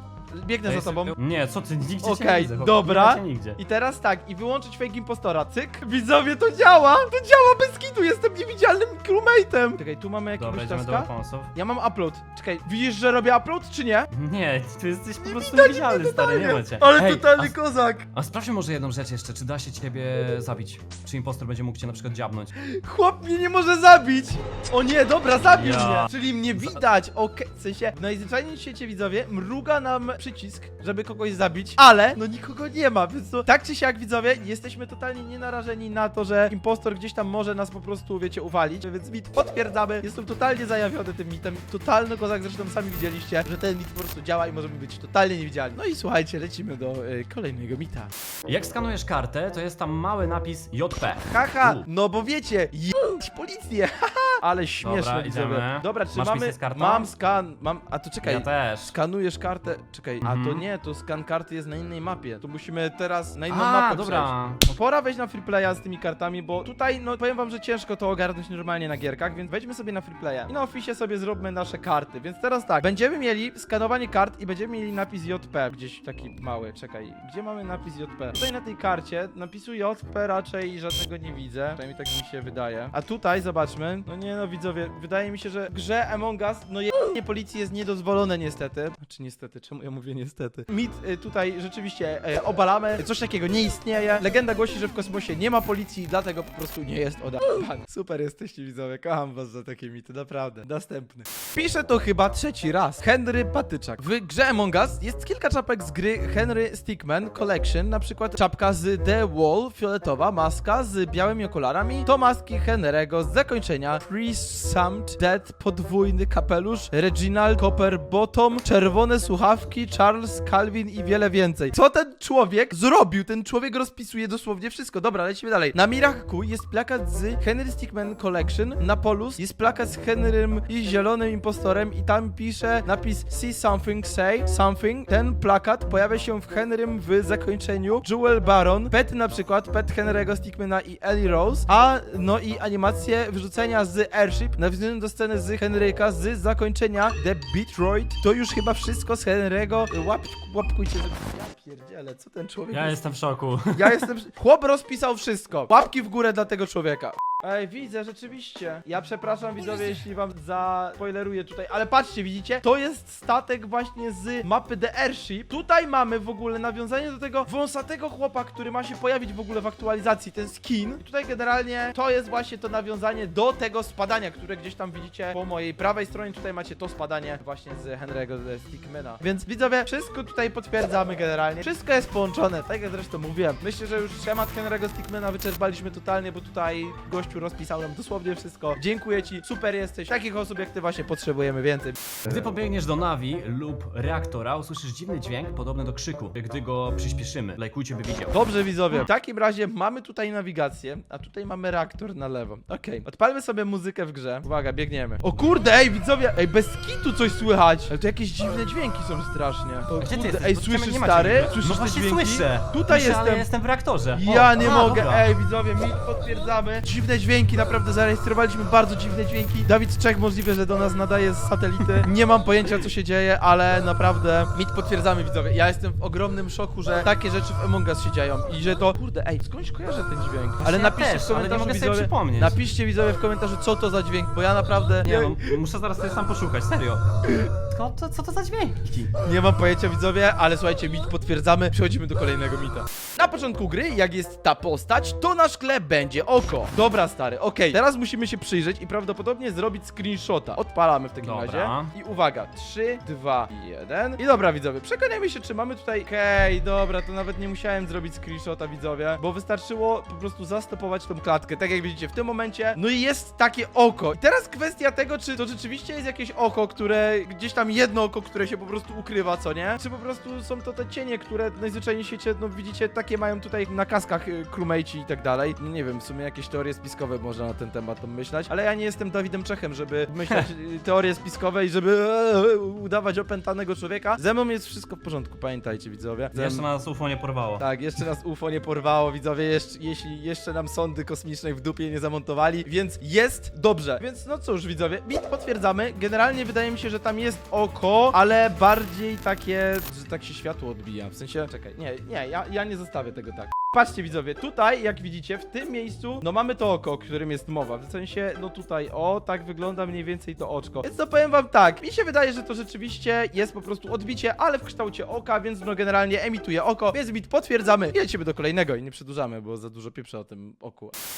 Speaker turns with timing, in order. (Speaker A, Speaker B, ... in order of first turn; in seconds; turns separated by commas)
Speaker A: 0.3-1.1, Speaker B: 0.7-3.6, Speaker A: 2.0-14.1, Speaker B: 10.4-11.5, Speaker B: 14.1-17.5, Speaker A: 15.2-18.1, Speaker B: 18.1-22.5, Speaker A: 22.6-48.1, Speaker B: 25.5-26.8, Speaker B: 48.5-51.9, Speaker A: 51.2-153.0, Speaker B: 54.8-57.1, Speaker B: 58.2-58.9, Speaker B: 60.2-60.6, Speaker B: 63.5-64.6, Speaker B: 152.7-154.1, Speaker A: 153.7-192.4, Speaker B: 192.2-198.4, Speaker A: 198.3-213.5, Speaker B: 210.0-215.3, Speaker A: 214.1-235.5, Speaker B: 230.6-232.6, Speaker B: 235.0-239.1, Speaker A: 239.2-286.6, Speaker B: 251.2-251.9, Speaker B: 286.3-287.6, Speaker A: 287.6-320.9